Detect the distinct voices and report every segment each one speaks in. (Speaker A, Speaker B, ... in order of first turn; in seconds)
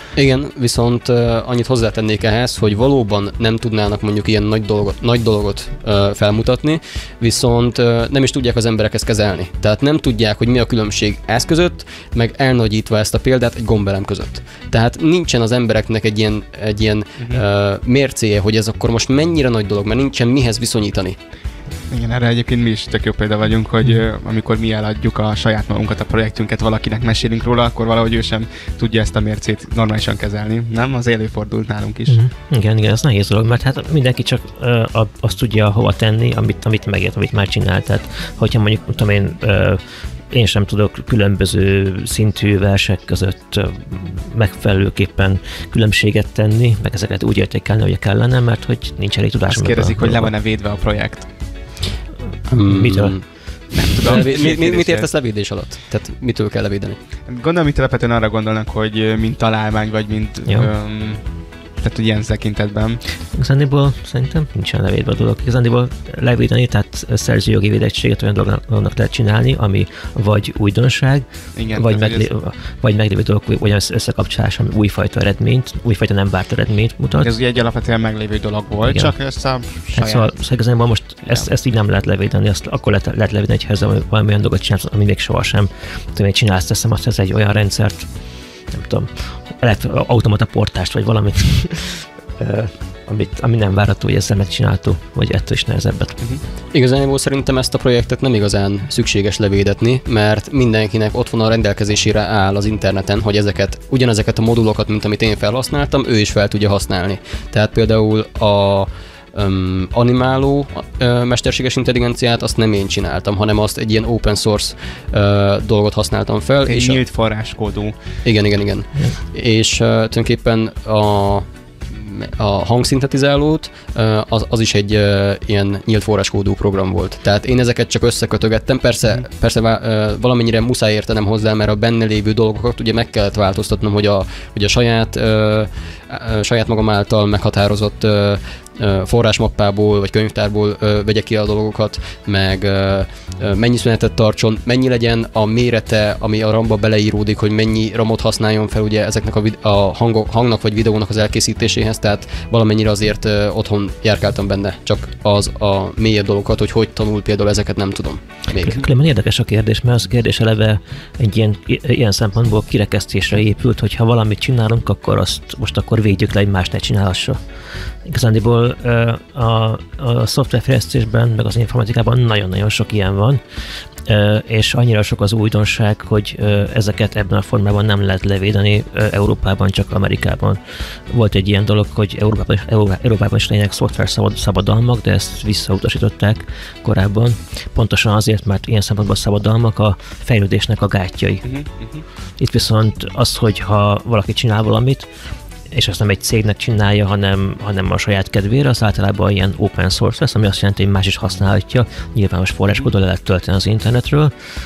Speaker A: 0.2-21.2, 52.5-53.3, 54.0-57.0, 96.7-117.0, 118.2-158.8
Speaker B: 17.2-17.4, 21.9-32.2, 49.5-51.3, 53.7-55.1, 57.3-63.0, 71.5-72.3, 77.2-80.3, 81.2-81.5, 116.7-118.0, 191.4-192.0
Speaker C: 32.1-50.3, 52.7-53.2, 63.3-77.3, 78.9-79.2, 79.9-88.1, 88.7-96.2, 158.6-167.4, 168.1-173.4, 174.1-180.6, 181.1-191.5, 192.4-195.1, 195.7-204.3